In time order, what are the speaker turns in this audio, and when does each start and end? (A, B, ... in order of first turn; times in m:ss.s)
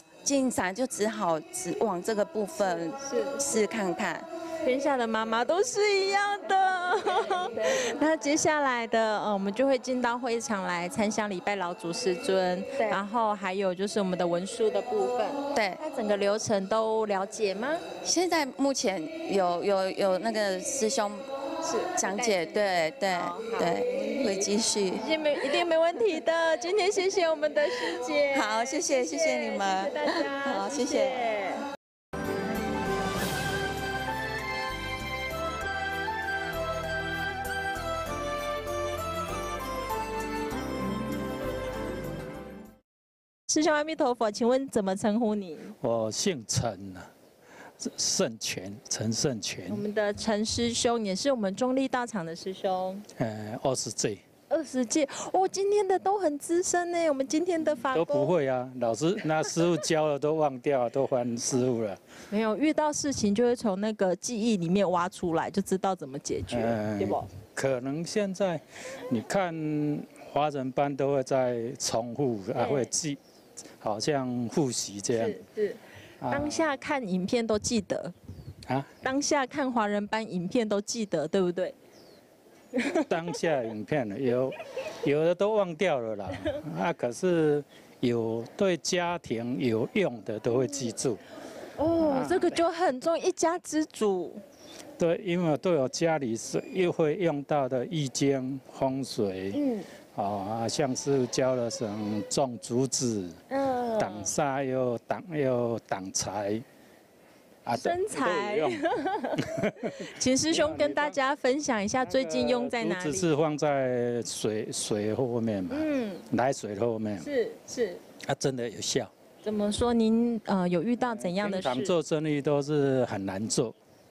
0:00.2-0:04.2 A
0:02.6-0:03.4 B
0:04.6-0:17.8 B
0:15.5-0:15.8 A
0:18.0-0:21.2 A
0:21.6-0:31.6 B
0:22.0-0:25.0 A
0:28.3-0:31.2 A
0:43.5-0:45.8 B
0:45.8-0:47.1 C
0:47.8-0:49.8 C
0:49.7-0:53.0 B
0:53.2-0:54.2 C
0:54.5-0:58.3 B
0:57.9-1:02.0 C
1:02.3-1:07.3 B
1:06.5-1:13.2 C
1:12.6-1:12.9 B
1:13.8-1:15.4 C
1:15.1-1:15.8 B
1:16.2-1:16.6 C
1:16.3-1:18.1 B
1:19.0-1:21.8 B
1:22.8-1:23.1 B
1:23.1-1:31.2 C
1:31.8-1:34.4 B
1:32.0-1:32.6 C
1:35.0-1:39.6 C
1:39.5-1:39.9 B
1:40.1-1:43.4 C
1:43.5-1:44.3 B
1:44.0-1:46.6 C
1:47.6-1:48.8 C
1:47.7-1:53.3 B
1:49.4-1:51.2 C
1:52.0-1:57.3 C
1:55.7-1:56.2 B
1:57.2-1:58.0 B
1:58.2-1:59.1 C
1:59.4-2:01.9 B
2:01.0-2:03.8 C